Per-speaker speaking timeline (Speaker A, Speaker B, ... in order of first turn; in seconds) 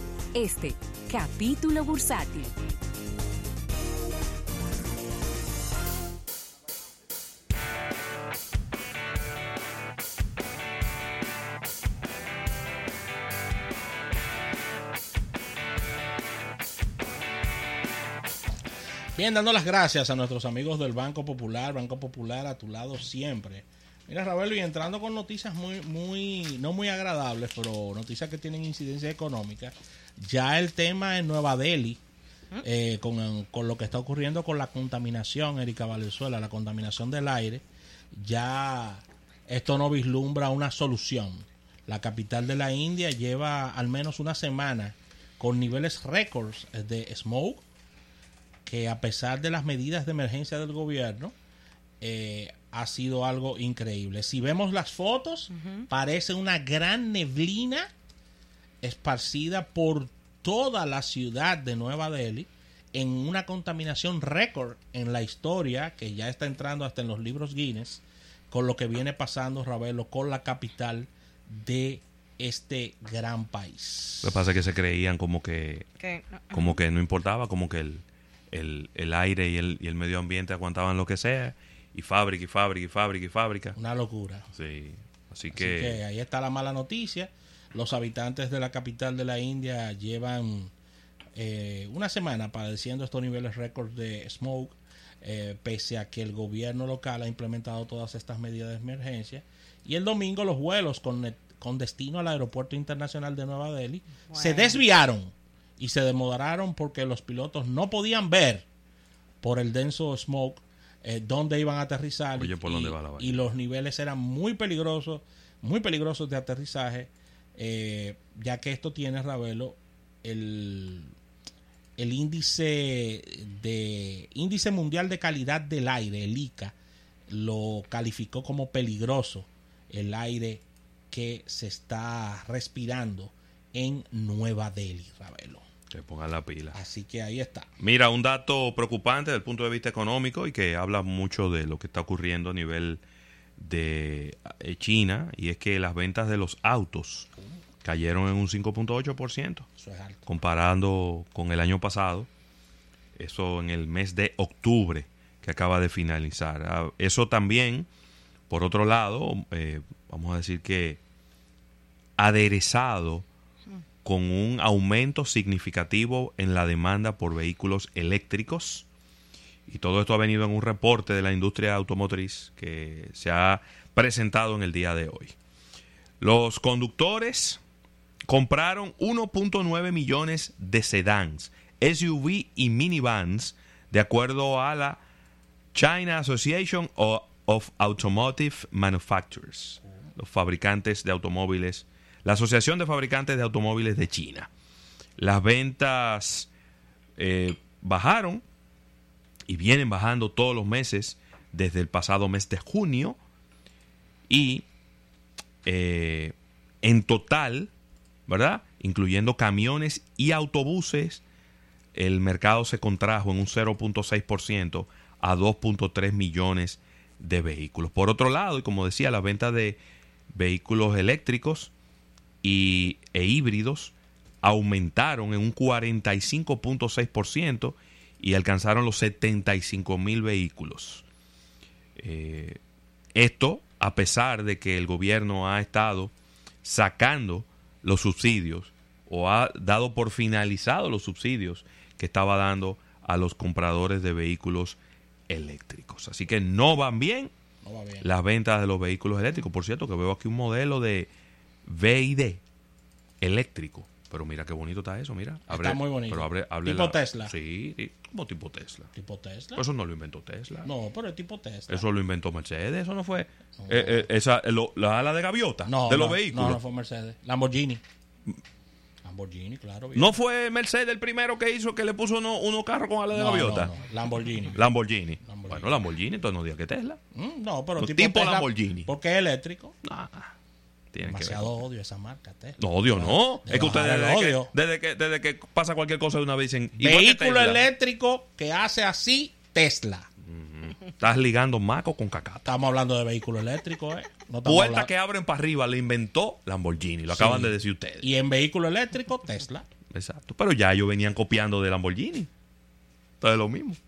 Speaker A: 0.3-2.5
Speaker B: 19.1-32.0, 32.6-47.6, 48.6-51.3, 52.0-57.9, 58.8-74.4, 83.8-84.5, 85.5-90.7, 91.4-108.7, 109.4-121.1, 122.0-126.8, 127.3-135.6, 136.7-137.7, 149.8-150.3, 247.6-248.1, 255.5-257.4, 258.9-259.6, 260.6-261.9, 263.6-264.1, 265.6-267.8, 269.0-270.2, 273.1-274.6, 275.2-275.8, 277.1-279.8, 281.0-284.5, 286.8-290.1, 292.4-294.9, 297.1-299.7
Speaker C: 74.2-75.9, 76.5-83.8, 84.5-86.0, 112.4-113.5, 135.9-136.8, 137.8-143.0, 143.6-147.3, 147.8-149.7, 150.3-152.3, 153.2-157.9, 158.5-161.0, 162.2-163.3, 164.0-168.9, 169.7-175.3, 176.2-177.6, 178.3-185.0, 185.7-194.5, 195.2-196.5, 197.2-198.4, 199.5-203.2, 204.3-204.7, 205.7-207.7, 208.3-211.2, 211.9-219.8, 220.3-221.7, 222.4-231.1, 232.0-232.6, 233.2-236.1, 236.6-244.8, 245.3-247.3, 248.0-251.1, 251.7-252.4, 253.2-258.9, 259.6-260.7, 261.7-266.6, 269.9-273.7, 274.6-277.0, 277.8-278.9, 279.8-280.3, 280.9-281.6, 282.6-287.6, 290.3-292.5, 294.4-298.1, 299.9-302.3, 303.2-303.8